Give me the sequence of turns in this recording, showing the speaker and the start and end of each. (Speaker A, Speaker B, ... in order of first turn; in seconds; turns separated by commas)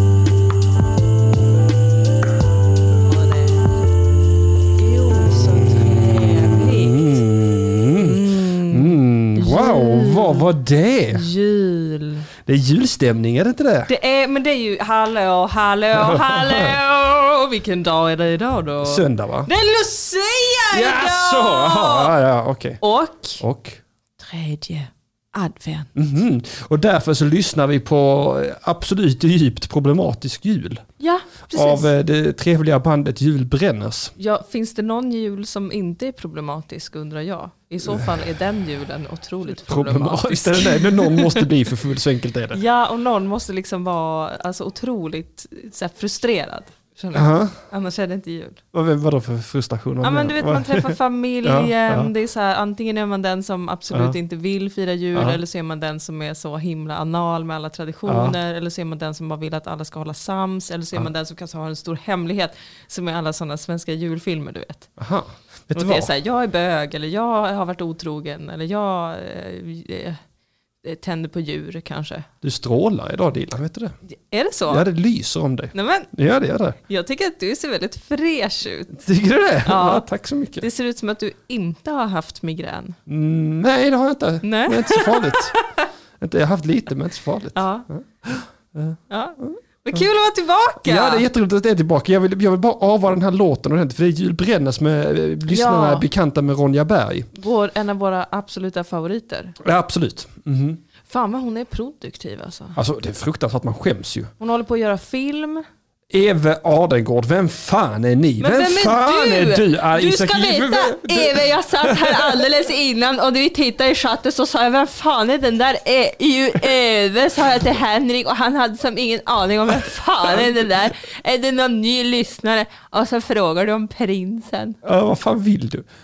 Speaker A: 3.1-3.6, Speaker A: 4.8-7.2, Speaker B: 5.9-11.2, Speaker A: 7.9-10.5, Speaker A: 11.1-12.3, Speaker B: 12.5-13.9, Speaker A: 13.9-22.1, Speaker B: 15.9-16.8, Speaker B: 18.8-19.5, Speaker B: 20.7-22.8, Speaker A: 22.8-23.4, Speaker B: 23.4-23.8, Speaker A: 24.2-25.9, Speaker B: 25.9-30.9, Speaker A: 31.0-31.9, Speaker B: 31.5-34.1, Speaker A: 34.2-41.5, Speaker B: 39.6-42.6, Speaker A: 42.5-48.6, Speaker B: 47.1-47.6, Speaker B: 48.7-52.1, Speaker A: 50.0-64.9, Speaker B: 58.1-58.4, Speaker B: 65.0-66.1, Speaker A: 65.7-70.2, Speaker A: 70.8-72.3, Speaker B: 72.4-74.0, Speaker A: 74.3-74.9, Speaker B: 74.7-76.8, Speaker A: 75.7-76.1, Speaker A: 76.9-79.0, Speaker B: 78.9-80.7, Speaker A: 79.6-83.0, Speaker B: 83.1-85.5, Speaker A: 84.4-85.9, Speaker B: 86.2-89.0, Speaker A: 87.5-87.9, Speaker A: 89.1-91.2, Speaker B: 90.8-97.3, Speaker A: 95.5-96.0, Speaker A: 97.3-99.6, Speaker B: 99.6-100.8, Speaker A: 101.1-102.8, Speaker B: 102.8-104.3, Speaker A: 104.4-105.7, Speaker B: 106.1-112.4, Speaker A: 108.4-124.8, Speaker B: 124.8-125.9